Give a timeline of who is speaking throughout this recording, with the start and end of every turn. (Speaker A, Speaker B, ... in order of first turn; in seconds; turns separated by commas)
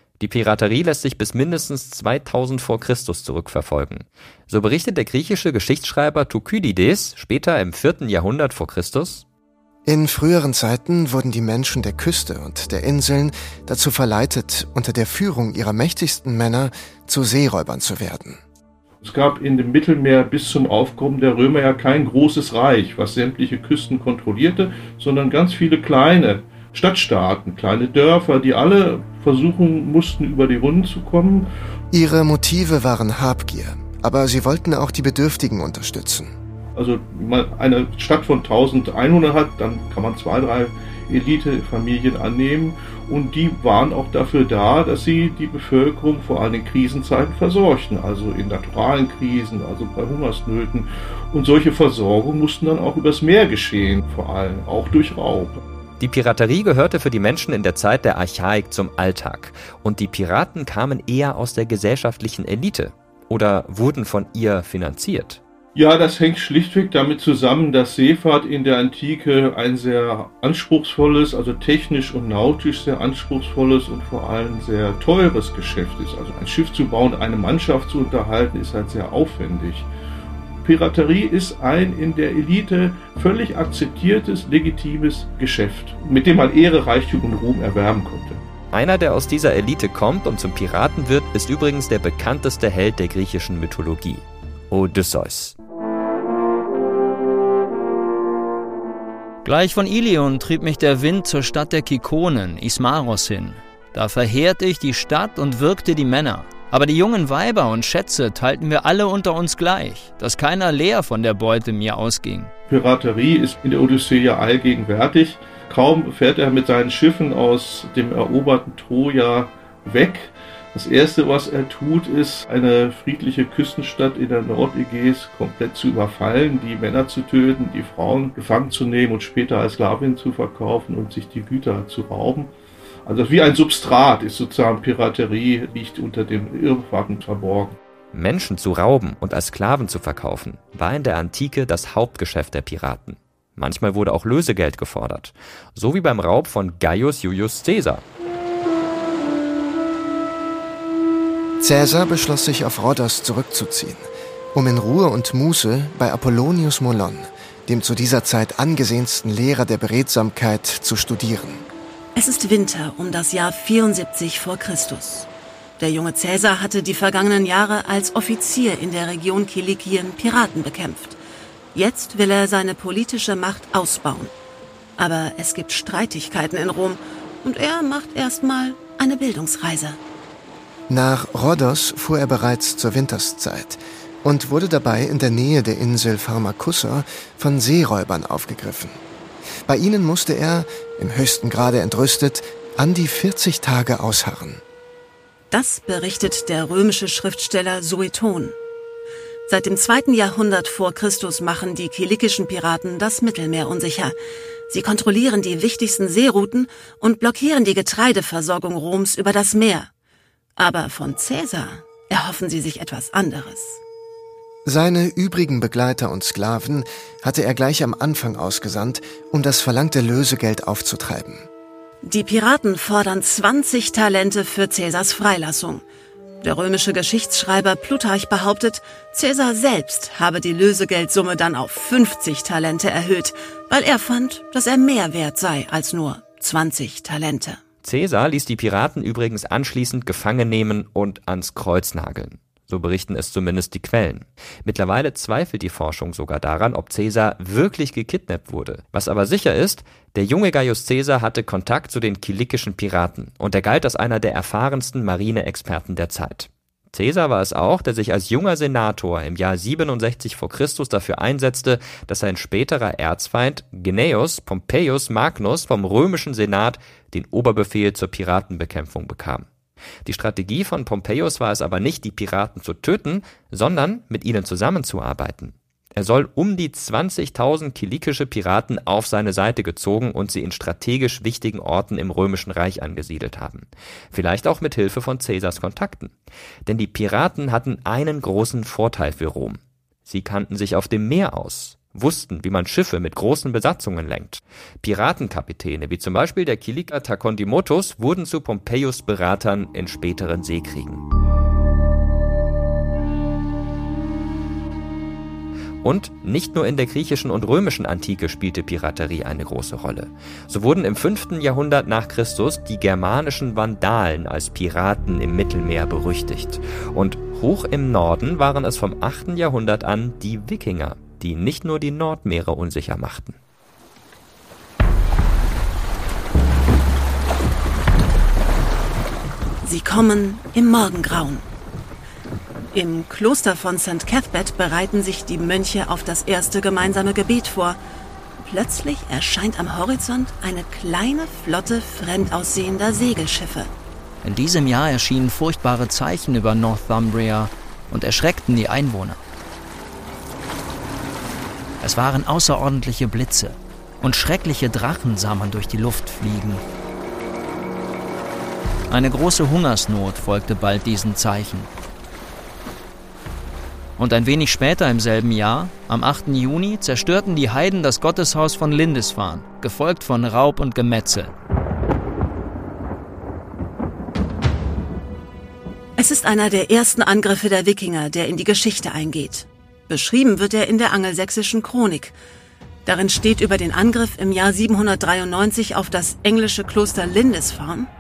Speaker A: 0.2-9.3, Speaker B: 9.9-18.4, Speaker C: 19.0-31.5, Speaker B: 31.9-36.3, Speaker C: 36.8-55.6, Speaker A: 56.0-65.4, Speaker C: 65.8-79.9, Speaker C: 80.6-88.4, Speaker A: 88.7-95.6, Speaker D: 99.4-112.5, Speaker C: 112.7-132.5, Speaker C: 133.1-137.8, Speaker A: 138.1-148.1, Speaker B: 151.6-161.7, Speaker E: 162.2-165.3, Speaker E: 165.8-171.2, Speaker E: 171.7-174.3, Speaker E: 175.0-180.0, Speaker B: 180.9-189.0, Speaker B: 189.7-194.6, Speaker E: 195.5-198.6, Speaker E: 199.5-204.2, Speaker E: 204.7-209.9, Speaker E: 210.6-213.8, Speaker B: 214.7-221.5, Speaker E: 222.0-225.8, Speaker E: 226.4-237.6, Speaker A: 237.8-269.5, Speaker A: 270.1-286.1, Speaker A: 286.7-301.0, Speaker A: 305.8-323.4, Speaker E: 329.6-331.5, Speaker E: 332.7-337.8, Speaker E: 338.4-343.7, Speaker D: 344.2-349.2, Speaker D: 351.8-356.6, Speaker D: 358.9-361.7, Speaker D: 364.0-371.3, Speaker E: 376.0-382.1, Speaker E: 382.9-387.9